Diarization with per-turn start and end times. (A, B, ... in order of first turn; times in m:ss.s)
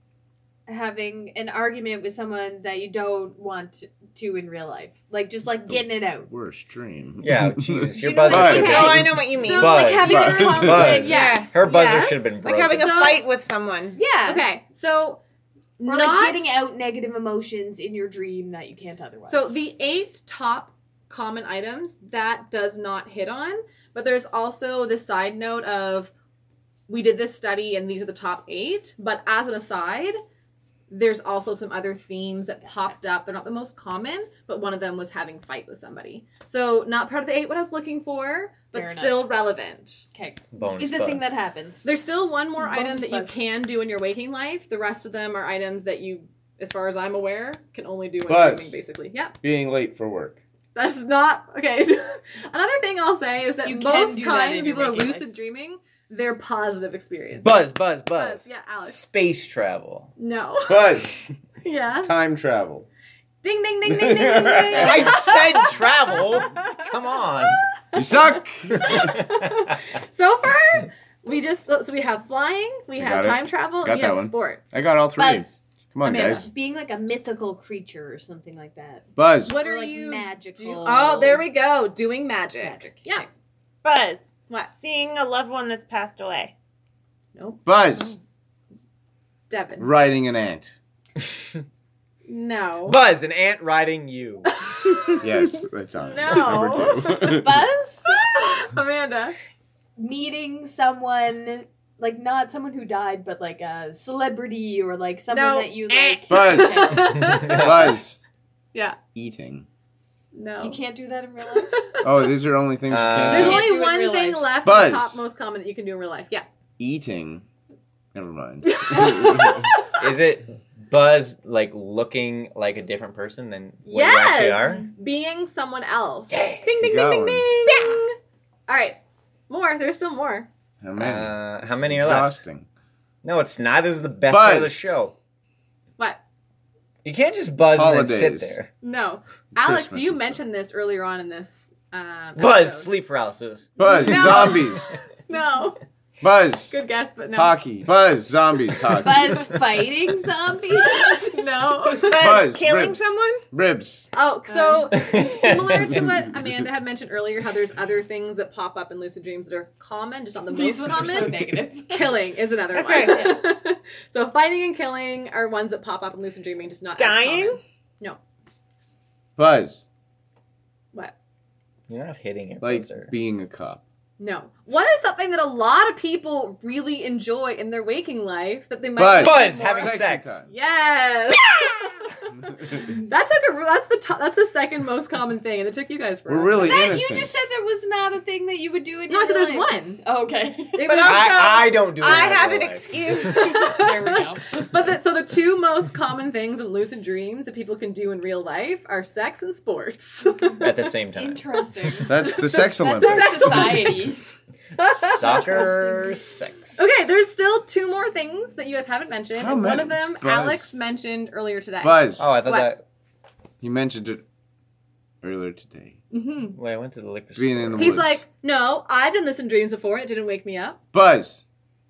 0:00.7-0:06.3 A
0:05.6-0:08.8 B
0:07.2-0:13.1 C
0:07.9-0:11.5 A
0:08.3-0:10.0 D
0:08.3-0:13.2 E
0:10.0-0:11.1 B
0:11.0-0:11.5 D
0:12.4-0:14.0 D
0:13.9-0:14.5 A
0:14.2-0:15.2 E
0:15.8-0:16.5 E
0:15.8-0:19.6 A
0:19.3-0:26.1 E
0:26.9-0:30.2 E
0:30.9-0:40.0 E
0:38.7-0:39.3 A
0:40.1-0:41.9 A
0:40.5-0:41.3 C
0:41.8-0:49.4 E
0:42.6-0:43.4 A
0:48.3-0:48.7 B
0:49.4-0:50.4 B
0:50.7-0:57.6 E
0:53.6-0:55.2 A
0:57.4-1:00.1 C
0:58.1-0:59.1 E
1:00.2-1:01.0 E
1:00.7-1:01.2 B
1:01.6-1:02.1 E
1:02.0-1:02.9 B
1:03.4-1:05.8 E
1:03.9-1:05.1 B
1:04.7-1:07.6 C
1:04.9-1:05.2 A
1:07.9-1:09.1 B
1:08.1-1:14.9 E
1:08.7-1:09.7 C
1:13.0-1:16.5 B
1:15.2-1:15.6 A
1:16.0-1:16.5 E
1:16.1-1:21.4 A
1:19.2-1:19.6 B
1:19.4-1:23.3 E
1:22.6-1:23.0 A
1:23.8-1:26.5 D
1:27.4-1:28.2 E
1:27.6-1:28.2 B
1:29.5-1:29.9 E
1:29.8-1:30.7 B
1:31.2-1:31.6 C
1:32.2-1:33.0 E
1:32.8-1:34.5 C
1:34.5-1:35.3 E
1:35.2-1:37.6 B
1:36.0-1:37.5 E
1:37.2-1:38.2 A
1:38.0-1:39.3 E
1:40.0-1:47.6 A
1:45.3-1:47.9 E
1:46.3-1:48.2 B
1:47.2-1:47.9 C
1:49.1-1:49.6 B
1:50.3-1:50.8 E
1:50.6-1:51.8 A
1:51.6-1:52.1 E
1:52.0-1:53.7 B
1:52.9-1:53.6 C
1:53.3-1:56.4 E
1:53.3-1:54.5 A
1:54.6-1:55.2 B
1:56.8-1:57.4 B
1:58.1-1:59.7 B
1:58.6-2:00.0 E
2:00.0-2:04.8 C
2:03.8-2:08.2 E
2:06.3-2:06.7 C
2:06.8-2:07.5 B
2:07.7-2:08.0 C
2:08.7-2:10.5 E
2:10.8-2:12.7 B
2:11.0-2:12.4 C
2:13.2-2:15.1 C
2:14.3-2:14.9 B
2:17.0-2:18.7 C
2:17.7-2:18.6 B
2:18.8-2:22.9 E
2:19.5-2:20.4 B
2:22.4-2:24.5 C
2:23.8-2:25.0 B
2:24.0-2:25.8 E
2:26.2-2:26.7 B
2:26.7-2:27.6 E
2:27.3-2:29.6 B
2:29.0-2:32.0 A
2:29.3-2:29.8 E
2:30.8-2:32.4 E
2:32.1-2:33.4 D
2:32.2-2:34.1 B
2:34.1-2:48.2 E
2:34.5-2:34.9 A
2:34.9-2:36.1 C
2:40.5-2:42.2 A
2:40.9-2:41.2 B
2:42.7-2:43.3 D
2:42.9-2:43.4 A
2:47.0-2:47.6 D
2:49.4-2:49.9 B
2:51.9-2:53.1 C
2:52.6-2:53.8 B
2:54.2-3:07.1 E
2:59.0-3:00.5 B
2:59.1-3:00.3 C
3:01.5-3:01.8 C
3:02.3-3:02.9 B
3:06.3-3:07.4 B
3:06.6-3:10.9 A
3:09.1-3:10.0 E
3:10.7-3:11.5 E
3:10.8-3:13.8 D
3:11.0-3:12.9 C
3:13.1-3:20.7 E
3:13.6-3:14.6 A
3:20.6-3:21.9 C
3:21.1-3:24.2 A
3:22.0-3:24.0 B
3:22.1-3:25.8 E
3:24.8-3:26.8 C
3:25.2-3:26.2 A
3:26.8-3:32.7 E
3:29.3-3:30.7 B
3:31.8-3:32.3 B
3:32.2-3:32.8 C
3:33.6-3:34.2 B
3:35.2-3:36.0 B
3:36.1-3:36.6 E
3:36.5-3:38.0 C
3:37.3-3:38.2 B
3:37.8-3:40.8 E
3:40.9-3:41.4 B